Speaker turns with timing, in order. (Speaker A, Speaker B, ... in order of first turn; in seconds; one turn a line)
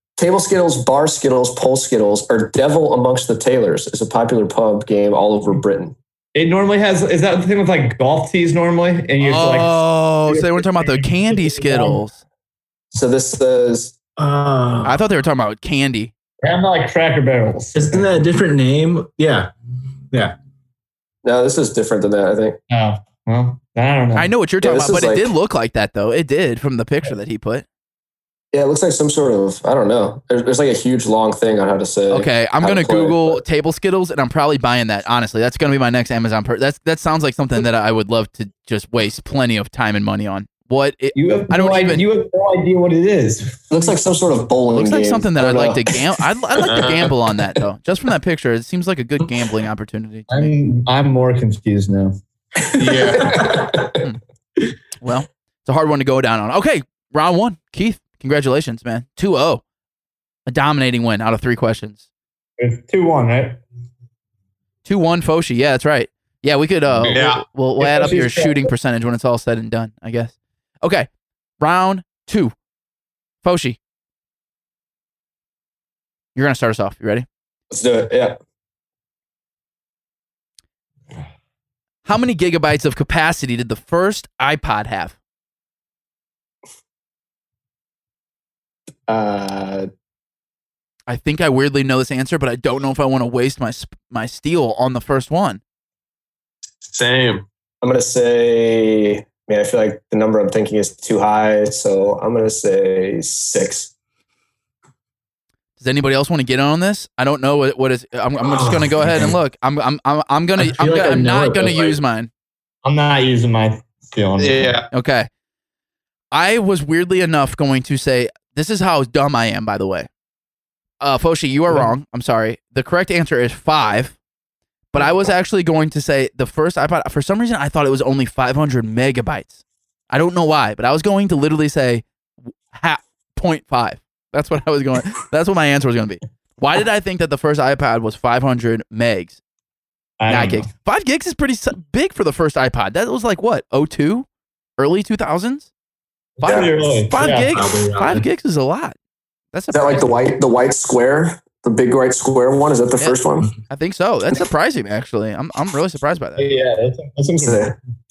Speaker A: 0.2-5.9
Speaker B: 6.3-12.0
Speaker C: 9.2-12.2
Speaker A: 12.9-13.9
Speaker D: 14.2-15.0
Speaker C: 14.8-16.1
Speaker B: 16.4-18.2
Speaker D: 17.7-19.5
Speaker A: 21.2-22.6
Speaker B: 22.7-24.3
Speaker C: 24.1-27.6
Speaker A: 24.6-25.3
Speaker A: 28.5-33.4
Speaker C: 32.1-42.0
Speaker B: 41.1-44.0
Speaker A: 43.7-45.9
Speaker C: 44.7-50.5
Speaker E: 46.7-47.1
Speaker B: 50.3-52.1
Speaker E: 52.8-53.4
Speaker A: 53.2-54.0
Speaker D: 53.3-53.6
Speaker C: 55.0-59.6
Speaker C: 60.5-62.0
Speaker B: 62.6-63.6
Speaker C: 64.8-71.1
Speaker B: 66.9-67.2
Speaker E: 67.1-67.4
Speaker B: 67.8-68.7
Speaker C: 71.6-72.5
Speaker C: 73.4-73.8
Speaker C: 76.3-77.2
Speaker A: 77.7-78.4
Speaker C: 82.0-85.2
Speaker A: 89.1-89.9
Speaker C: 91.1-95.6
Speaker E: 96.9-97.4
Speaker A: 97.8-103.9
Speaker C: 105.8-112.3
Speaker D: 108.5-109.3
Speaker D: 110.6-112.0
Speaker B: 112.8-114.8
Speaker E: 114.4-114.8
Speaker C: 114.9-115.3
Speaker C: 116.3-120.1
Speaker C: 121.0-124.2
Speaker C: 124.9-132.0
Speaker C: 132.7-139.4
Speaker B: 140.2-140.7
Speaker C: 140.3-144.3
Speaker C: 144.8-145.7
Speaker B: 146.4-147.5
Speaker C: 146.4-148.9
Speaker A: 146.4-146.7
Speaker D: 147.5-148.2
Speaker C: 149.5-150.1
Speaker A: 149.7-153.5
Speaker C: 153.0-156.5
Speaker B: 156.4-157.7
Speaker A: 157.4-157.7